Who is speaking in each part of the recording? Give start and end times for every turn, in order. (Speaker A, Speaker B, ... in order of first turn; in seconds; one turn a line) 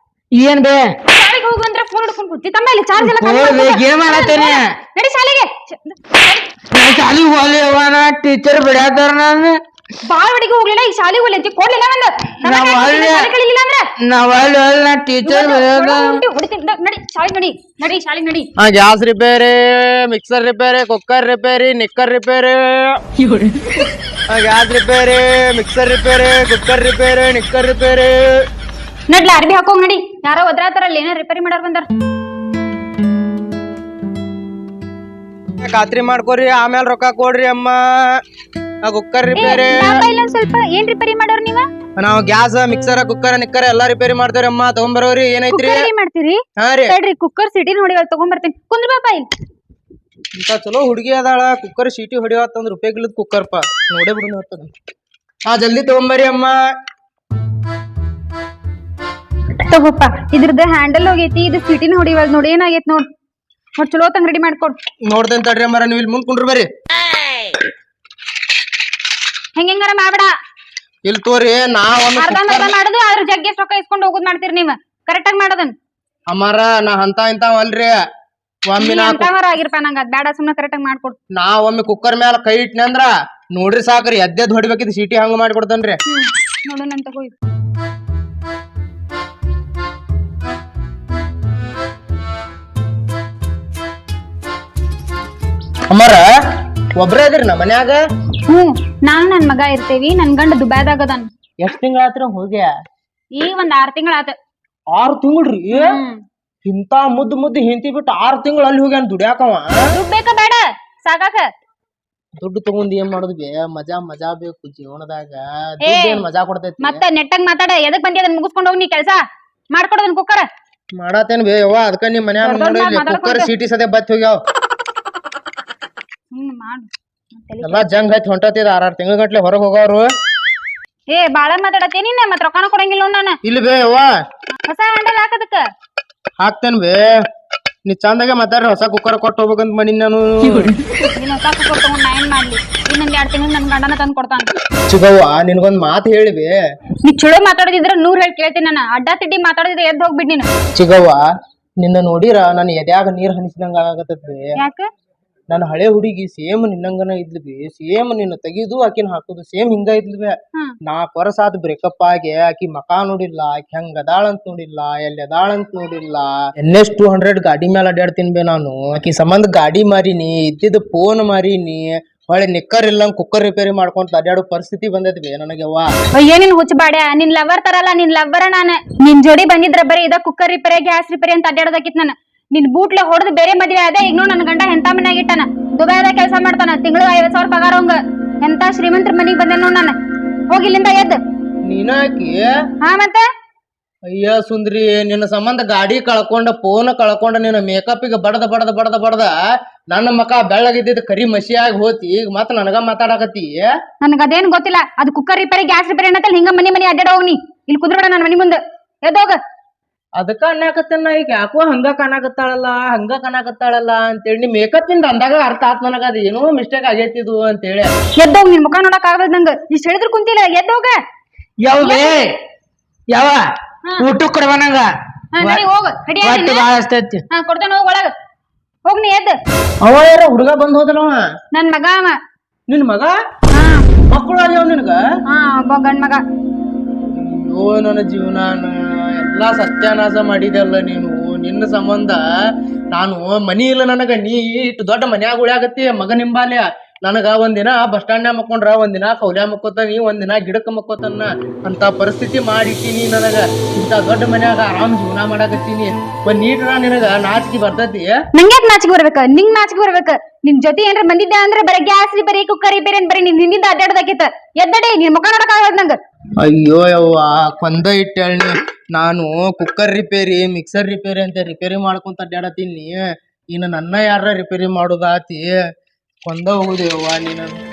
Speaker A: 0.3-1.0
Speaker B: 1.1-6.5
Speaker A: 3.0-4.7
Speaker A: 6.7-9.6
Speaker B: 10.1-13.9
Speaker A: 12.4-13.3
Speaker A: 14.0-16.2
Speaker B: 15.2-18.5
Speaker C: 18.6-23.0
Speaker A: 23.2-23.8
Speaker C: 24.3-28.3
Speaker B: 29.1-31.9
Speaker C: 35.6-38.2
Speaker C: 38.8-40.0
Speaker B: 39.3-41.6
Speaker C: 42.0-45.9
Speaker B: 45.5-49.3
Speaker C: 46.6-46.9
Speaker C: 50.4-54.7
Speaker C: 55.5-56.5
Speaker B: 59.6-63.1
Speaker B: 63.8-64.8
Speaker C: 65.1-66.7
Speaker B: 69.5-70.3
Speaker C: 71.0-72.7
Speaker B: 72.2-75.7
Speaker C: 76.3-78.0
Speaker C: 78.7-79.3
Speaker B: 78.8-81.2
Speaker C: 81.3-86.0
Speaker B: 86.1-87.3
Speaker C: 95.9-96.3
Speaker C: 97.0-98.0
Speaker B: 98.5-101.3
Speaker C: 101.6-102.7
Speaker B: 103.3-104.3
Speaker C: 104.9-105.9
Speaker B: 105.7-106.2
Speaker C: 106.6-109.7
Speaker B: 109.9-111.5
Speaker C: 112.4-117.0
Speaker B: 115.8-116.2
Speaker B: 116.8-119.2
Speaker B: 119.7-120.5
Speaker C: 121.0-124.4
Speaker B: 122.4-123.5
Speaker B: 126.3-127.9
Speaker C: 127.6-130.1
Speaker B: 131.1-133.4
Speaker C: 133.4-134.1
Speaker B: 134.5-135.6
Speaker C: 136.4-137.1
Speaker C: 137.8-140.7
Speaker A: 140.5-140.8
Speaker B: 141.0-144.5
Speaker C: 144.9-146.5
Speaker B: 147.0-150.5
Speaker C: 150.7-151.2
Speaker C: 151.8-154.5
Speaker B: 154.6-154.9
Speaker C: 155.5-160.3
Speaker C: 160.8-175.9
Speaker B: 176.1-189.9
Speaker B: 190.5-191.2
Speaker C: 191.7-192.4
Speaker B: 192.8-193.3
Speaker C: 194.1-199.3
Speaker C: 199.9-203.7
Speaker B: 204.0-209.4
Speaker C: 210.2-217.9
Speaker B: 218.2-221.0
Speaker A: 221.6-222.3
Speaker B: 221.8-222.2
Speaker A: 223.1-224.9
Speaker B: 225.3-226.7
Speaker A: 226.2-227.2
Speaker B: 227.3-228.1
Speaker B: 228.9-229.4
Speaker C: 229.8-231.2
Speaker B: 231.5-232.2
Speaker C: 232.7-233.1
Speaker B: 233.5-233.8
Speaker C: 234.1-235.0
Speaker B: 235.3-236.2
Speaker C: 237.1-242.2
Speaker C: 242.9-258.1
Speaker B: 258.3-266.0
Speaker C: 266.4-273.0
Speaker C: 273.5-275.6
Speaker C: 276.2-277.5